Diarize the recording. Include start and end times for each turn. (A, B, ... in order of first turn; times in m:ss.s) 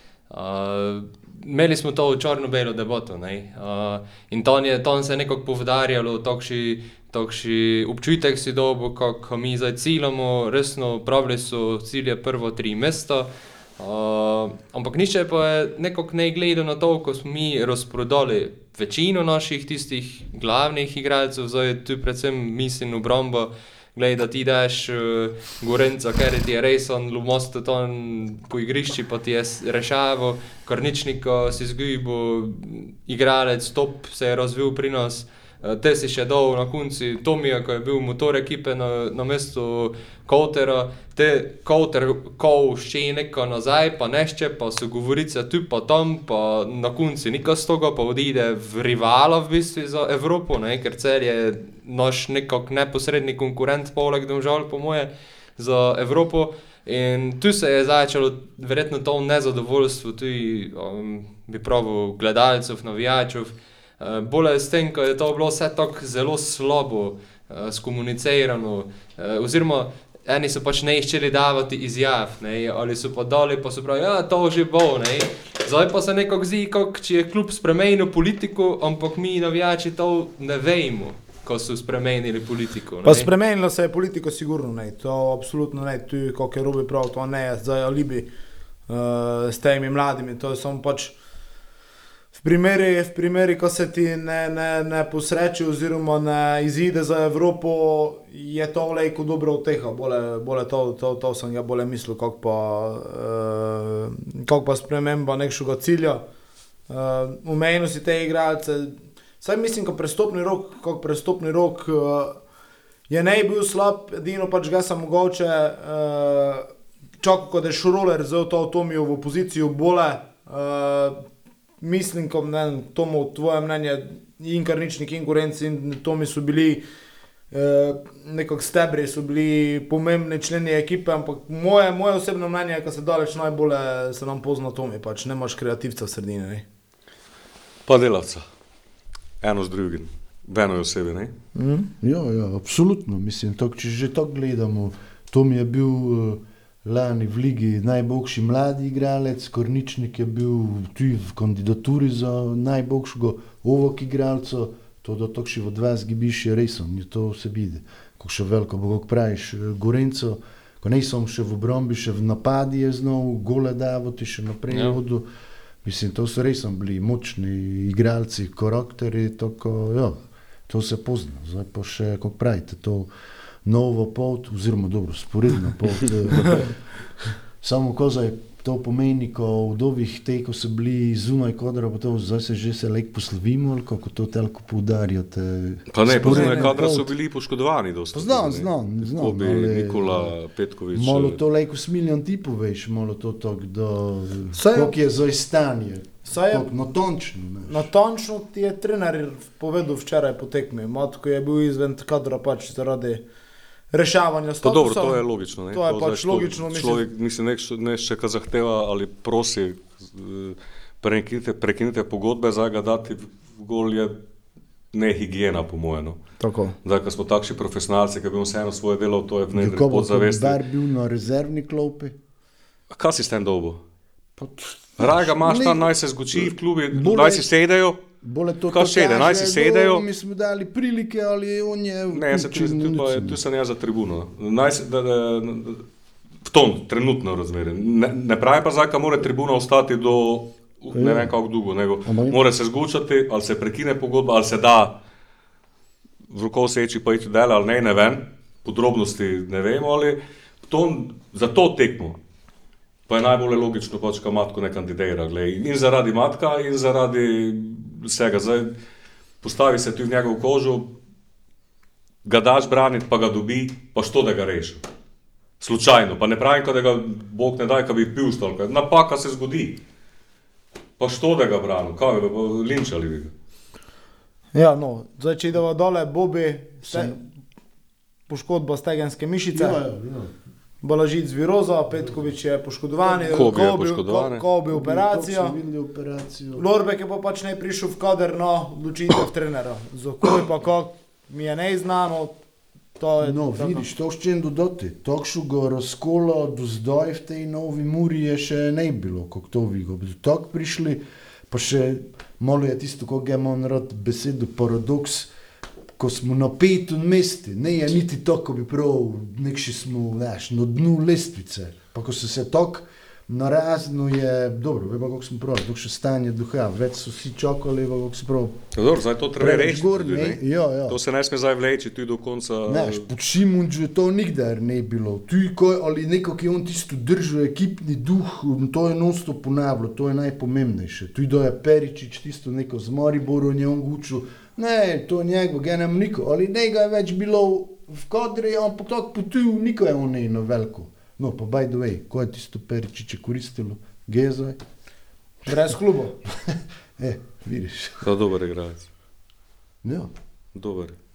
0:00.3-1:23.3 A
1:23.0-1:28.3 B
1:28.9-1:31.1 B
1:32.3-1:46.2 B
1:46.9-1:52.4 B
1:53.1-1:56.7 B
1:57.2-2:01.2 B
2:01.8-2:06.8 B
2:07.5-2:16.6 B
2:17.9-2:18.4 C
2:19.4-2:21.3 C
2:21.6-2:21.9 B
2:22.0-2:45.3 D
2:44.7-2:45.0 A
2:45.8-2:53.1 D
2:53.6-3:07.1 D
3:05.9-3:11.4 C
3:06.1-3:06.7 B
3:08.1-3:10.3 D
3:10.9-3:17.9 D
3:14.5-3:14.9 B
3:16.2-3:16.6 B
3:17.7-3:23.2 B
3:23.9-3:27.0 B
3:24.6-3:34.1 C
3:34.9-3:36.2 C
3:36.4-3:36.8 B
3:36.8-3:40.6 C
3:39.5-3:42.1 D
3:42.9-3:43.8 C
3:44.4-3:47.5 D
3:45.0-3:48.0 C
3:48.2-3:53.4 D
3:48.7-3:50.0 C
3:52.1-3:55.8 C
3:56.4-4:05.0 C
4:00.9-4:01.3 D
4:02.0-4:02.4 D
4:06.3-4:12.2 C
4:13.1-4:18.7 C
4:19.4-4:20.9 C
4:22.2-4:24.8 C
4:25.6-4:29.8 C
4:31.0-4:33.3 C
4:34.5-4:37.2 B
4:36.8-4:37.2 D
4:38.3-4:39.8 B
4:39.5-4:40.3 D
4:40.8-4:45.5 B
4:41.9-4:42.3 D
4:43.2-4:44.4 C
4:44.7-4:46.6 D
4:46.6-4:52.4 B
4:53.0-4:53.8 B
4:53.2-5:05.3 D
5:06.0-5:18.6 D
5:18.7-5:23.0 C
5:19.4-5:21.0 D
5:22.6-5:44.6 D
5:45.4-5:45.7 D
5:45.5-5:46.2 B
5:46.3-5:48.1 D
5:48.0-5:48.9 C
5:49.8-5:50.1 D
5:50.5-5:51.0 C